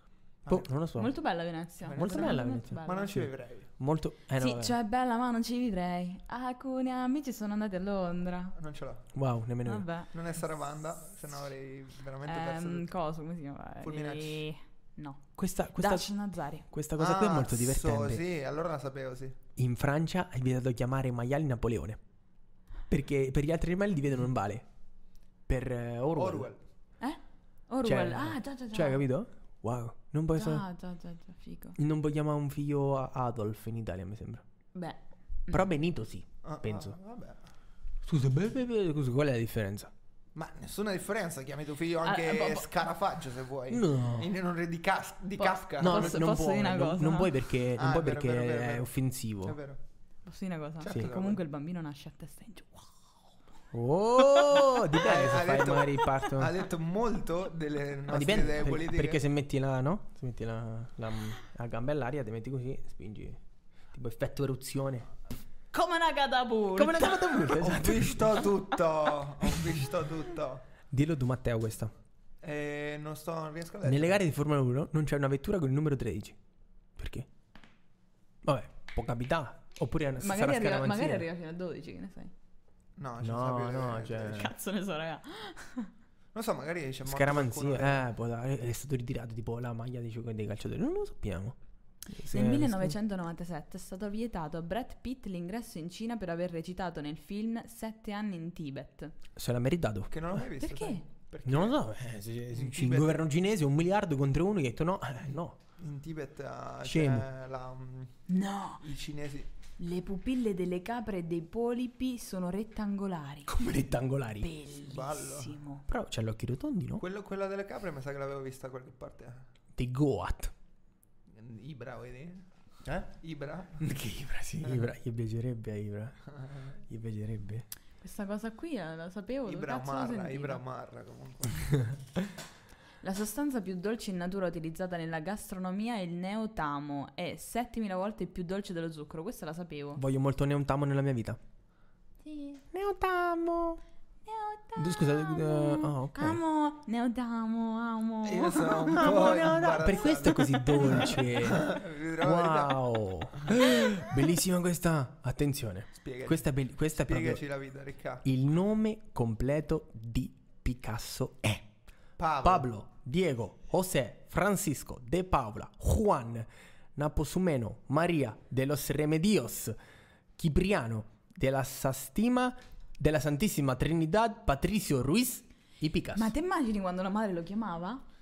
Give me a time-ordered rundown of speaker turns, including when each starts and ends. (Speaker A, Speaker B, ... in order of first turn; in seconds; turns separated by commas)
Speaker A: 0.4-0.7, Speaker B: 0.5-1.2, Speaker C: 0.9-3.2, Speaker A: 1.8-3.7, Speaker B: 1.9-4.8, Speaker C: 4.4-8.5, Speaker A: 8.6-9.1, Speaker B: 9.1-9.9, Speaker C: 9.6-10.1, Speaker A: 10.1-12.9, Speaker C: 12.2-16.7, Speaker A: 13.8-14.4, Speaker B: 15.4-16.1, Speaker B: 16.7-18.2, Speaker A: 16.9-19.4, Speaker B: 19.6-22.0, Speaker B: 22.9-24.6, Speaker B: 25.5-26.5, Speaker A: 26.1-26.6, Speaker C: 27.0-29.0, Speaker B: 27.8-30.6, Speaker C: 30.4-31.8, Speaker B: 31.8-34.4, Speaker C: 34.7-35.6, Speaker B: 35.5-37.0, Speaker A: 36.4-37.4, Speaker B: 38.0-39.9, Speaker A: 40.3-46.2, Speaker C: 42.0-42.7, Speaker B: 43.7-44.3, Speaker C: 45.4-47.4, Speaker B: 45.8-49.5, Speaker A: 47.8-48.9, Speaker A: 49.4-49.8, Speaker C: 50.2-52.9, Speaker A: 50.8-51.4, Speaker B: 53.7-56.5, Speaker C: 54.4-54.7, Speaker A: 54.9-59.2, Speaker B: 58.1-63.4, Speaker B: 63.9-65.1, Speaker C: 65.7-67.2, Speaker B: 66.7-68.5, Speaker A: 67.5-70.6, Speaker B: 70.9-71.9, Speaker A: 72.4-74.2, Speaker B: 73.8-76.4, Speaker B: 77.0-77.3, Speaker B: 78.4-81.3, Speaker C: 80.2-82.3, Speaker A: 83.0-84.5, Speaker B: 83.2-84.5, Speaker C: 84.3-85.9, Speaker A: 86.3-88.0, Speaker B: 87.0-91.5, Speaker B: 92.1-93.0, Speaker C: 92.3-99.1, Speaker B: 99.3-100.4, Speaker A: 100.1-101.8, Speaker C: 100.6-101.0, Speaker B: 101.4-105.6, Speaker A: 102.5-103.2, Speaker A: 105.8-108.2, Speaker B: 106.8-107.3, Speaker C: 108.3-108.8, Speaker A: 108.8-109.5, Speaker C: 109.8-113.5, Speaker B: 113.5-114.5, Speaker C: 114.4-115.8, Speaker A: 114.8-115.6, Speaker B: 115.9-117.0, Speaker A: 117.0-119.5, Speaker B: 119.7-120.5, Speaker A: 121.3-122.4, Speaker B: 122.8-123.1, Speaker A: 123.1-123.9, Speaker B: 123.8-126.2, Speaker A: 126.3-126.7, Speaker B: 126.9-127.7, Speaker C: 128.0-130.6, Speaker A: 129.4-131.8, Speaker C: 133.0-140.0, Speaker B: 139.9-141.4, Speaker C: 142.2-142.6, Speaker B: 142.7-143.8, Speaker C: 144.2-149.3, Speaker B: 144.8-146.4, Speaker A: 148.2-153.5, Speaker B: 148.9-157.4, Speaker A: 155.9-158.2, Speaker B: 158.2-161.7, Speaker A: 162.2-162.7, Speaker B: 162.4-169.8, Speaker B: 170.4-176.3, Speaker C: 176.1-178.0